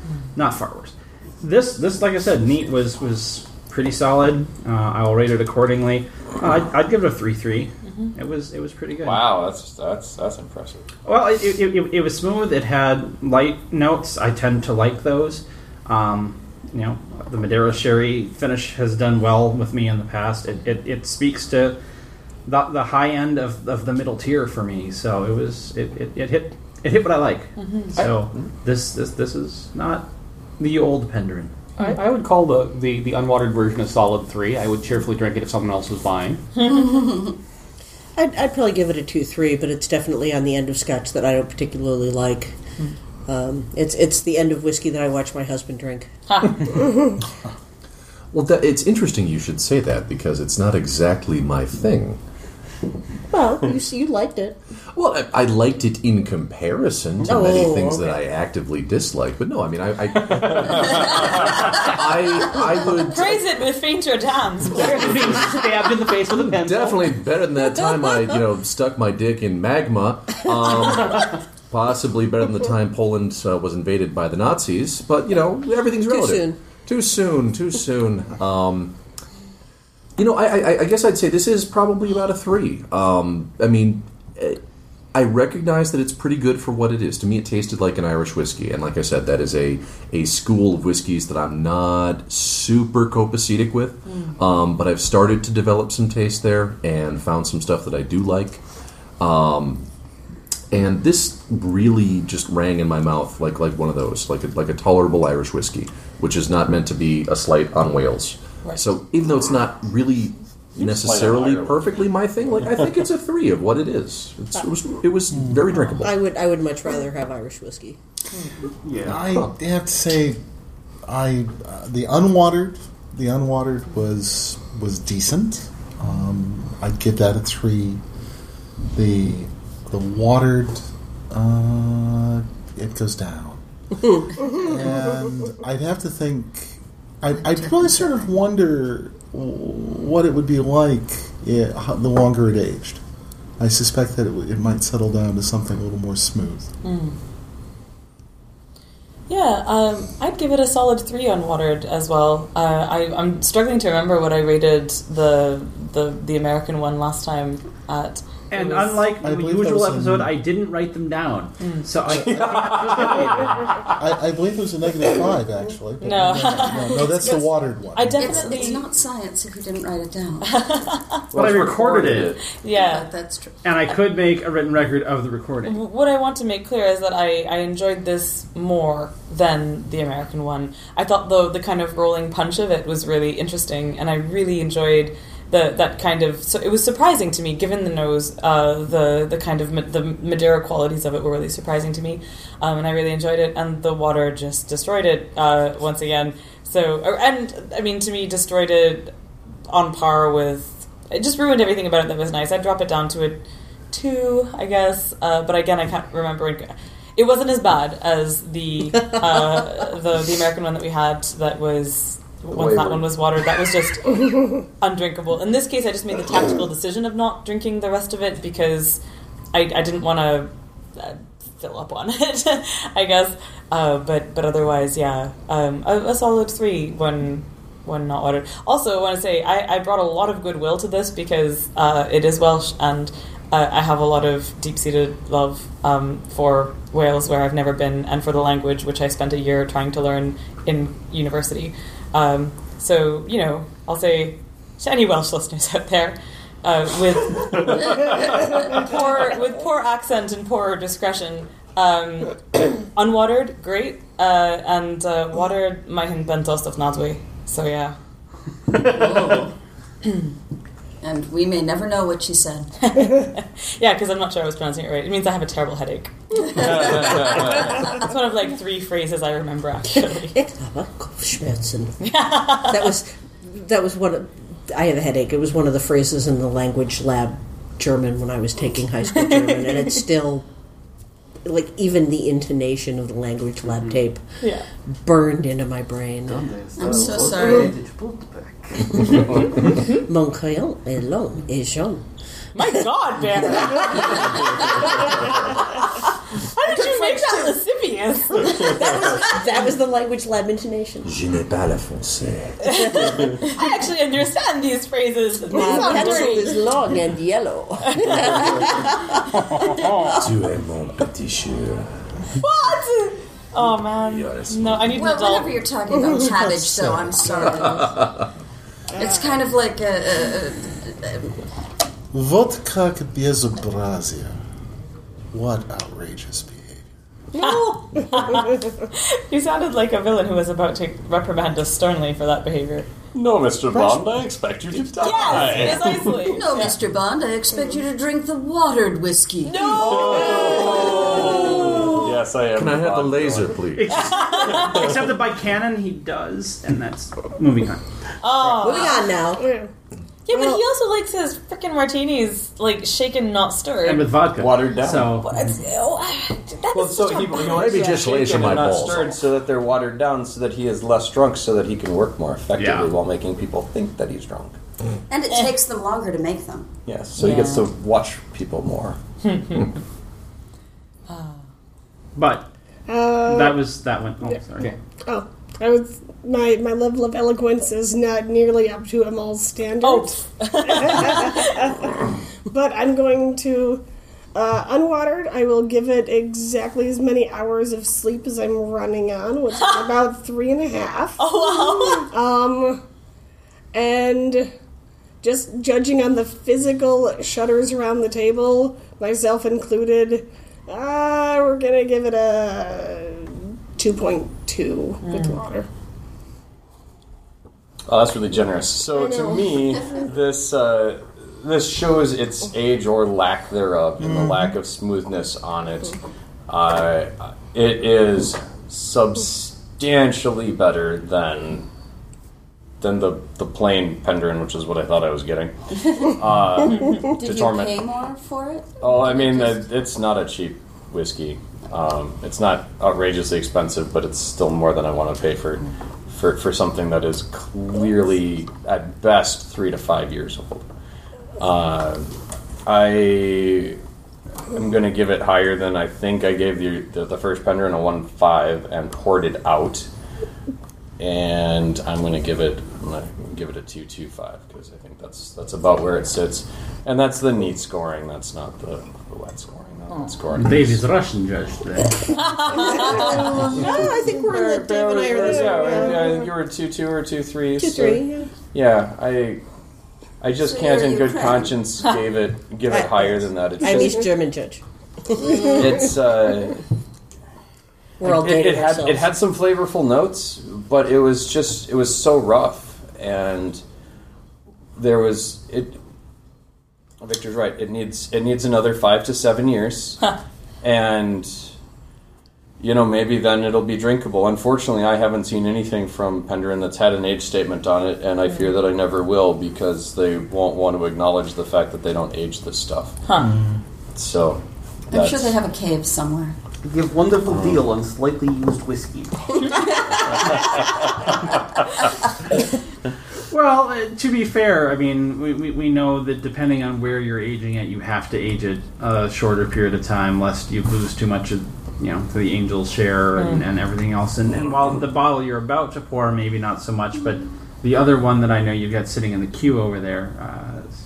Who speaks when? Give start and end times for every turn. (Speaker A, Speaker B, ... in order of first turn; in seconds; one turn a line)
Speaker A: 0.3-9.3
Speaker B: 9.0-10.9
Speaker A: 11.1-21.8
Speaker A: 22.4-30.1
Speaker C: 27.6-27.9
Speaker A: 30.6-31.5
Speaker D: 31.8-36.4
Speaker E: 36.7-37.3
Speaker F: 38.1-42.5
Speaker F: 43.3-46.1
Speaker C: 46.3-46.6
Speaker G: 48.3-52.2
Speaker F: 53.3-54.6
Speaker G: 54.9-63.5
Speaker F: 57.2-58.2
Speaker C: 63.1-65.4
Speaker D: 64.8-67.0
Speaker G: 66.3-78.9
Speaker F: 76.0-76.6
Speaker G: 80.2-84.6
Speaker G: 85.1-98.6
Speaker C: 94.0-94.4
Speaker G: 99.2-99.8
Speaker G: 100.7-116.2
Speaker B: 110.8-111.9
Speaker H: 115.3-115.7
Speaker F: 116.0-118.0
Speaker D: 118.8-119.2
Speaker H: 119.0-120.4
Speaker H: 121.0-128.0
Speaker H: 128.9-133.6
Speaker H: 134.3-143.0
Speaker H: 143.6-146.7
Speaker C: 146.8-147.2
Speaker C: 149.3-159.0
Speaker A: 158.5-163.6
Speaker H: 159.2-160.3
Speaker C: 161.6-161.9
Speaker H: 162.0-163.2
Speaker H: 163.9-168.6
Speaker C: 166.0-168.8
Speaker E: 168.2-170.6
Speaker C: 170.4-171.2
Speaker B: 171.3-172.4
Speaker A: 171.3-172.3
Speaker C: 172.6-173.1
Speaker E: 172.7-173.5
Speaker A: 173.6-175.8
Speaker C: 175.6-199.1
Speaker C: 199.7-219.0
Speaker B: 212.5-213.1
Speaker C: 219.5-257.9
Speaker E: 258.8-259.5
Speaker E: 261.0-262.7
Speaker C: 262.8-270.4
Speaker B: 267.0-267.6
Speaker F: 270.3-280.5
Speaker C: 272.0-272.9
Speaker C: 279.2-280.0
Speaker F: 281.4-284.2
Speaker D: 283.7-284.0
Speaker C: 284.4-284.7
Speaker F: 285.0-286.5
Speaker D: 286.3-289.6
Speaker E: 286.8-287.7
Speaker F: 289.2-292.0
Speaker C: 292.5-299.2
Speaker I: 296.7-297.5
Speaker F: 298.4-301.1
Speaker G: 301.0-302.7
Speaker C: 302.6-306.6
Speaker F: 302.8-303.4
Speaker F: 305.5-308.9
Speaker I: 305.7-306.5
Speaker C: 307.9-308.8
Speaker G: 310.1-311.9
Speaker C: 312.4-315.6
Speaker G: 314.0-315.0
Speaker E: 314.9-318.1
Speaker H: 316.2-317.8
Speaker G: 317.6-318.1
Speaker E: 319.0-321.3
Speaker H: 322.1-324.3
Speaker H: 325.3-326.9
Speaker C: 327.4-332.9
Speaker B: 333.1-336.4
Speaker H: 333.7-335.7
Speaker C: 335.0-336.7
Speaker E: 336.2-340.2
Speaker C: 339.5-341.8
Speaker B: 339.7-343.6
Speaker G: 342.5-344.1
Speaker A: 343.8-347.8
Speaker C: 343.9-344.8
Speaker C: 348.2-349.0
Speaker F: 348.6-349.4
Speaker I: 348.7-349.7
Speaker C: 350.2-354.1
Speaker A: 353.8-355.3
Speaker B: 354.3-355.2
Speaker C: 355.2-358.7
Speaker B: 356.7-364.6
Speaker G: 357.4-359.2
Speaker A: 362.6-362.9
Speaker E: 365.1-366.7
Speaker B: 366.9-369.0
Speaker C: 367.2-367.7
Speaker C: 369.2-369.7
Speaker C: 371.1-371.4
Speaker A: 372.2-372.5
Speaker I: 372.9-373.6
Speaker A: 373.2-374.8
Speaker I: 375.0-383.8
Speaker C: 379.8-381.8
Speaker I: 384.3-392.8
Speaker C: 389.6-389.9
Speaker C: 391.2-392.1
Speaker I: 393.7-394.5
Speaker I: 395.2-405.7
Speaker C: 405.0-405.4
Speaker B: 407.9-416.0
Speaker I: 408.9-409.8
Speaker H: 414.0-414.6
Speaker B: 416.5-421.7
Speaker B: 422.8-427.8
Speaker E: 426.9-429.6
Speaker B: 428.8-440.7
Speaker B: 441.4-442.1
Speaker B: 442.7-443.8
Speaker B: 444.5-449.9
Speaker B: 451.0-460.8
Speaker A: 460.3-462.2
Speaker C: 462.2-463.5
Speaker F: 462.5-466.2
Speaker I: 462.6-463.5
Speaker B: 463.6-469.4
Speaker F: 467.6-468.3
Speaker B: 470.2-474.1
Speaker E: 470.4-471.6
Speaker F: 472.7-475.6
Speaker B: 475.4-476.6
Speaker F: 478.0-479.1
Speaker B: 478.0-483.6
Speaker B: 484.8-485.8
Speaker B: 487.0-490.0
Speaker B: 490.6-491.5
Speaker B: 492.6-503.0
Speaker C: 503.1-503.3
Speaker H: 503.2-503.6
Speaker B: 503.9-505.4
Speaker E: 504.9-506.4
Speaker D: 506.6-509.6
Speaker D: 510.3-510.6
Speaker A: 513.3-530.7
Speaker C: 523.2-523.4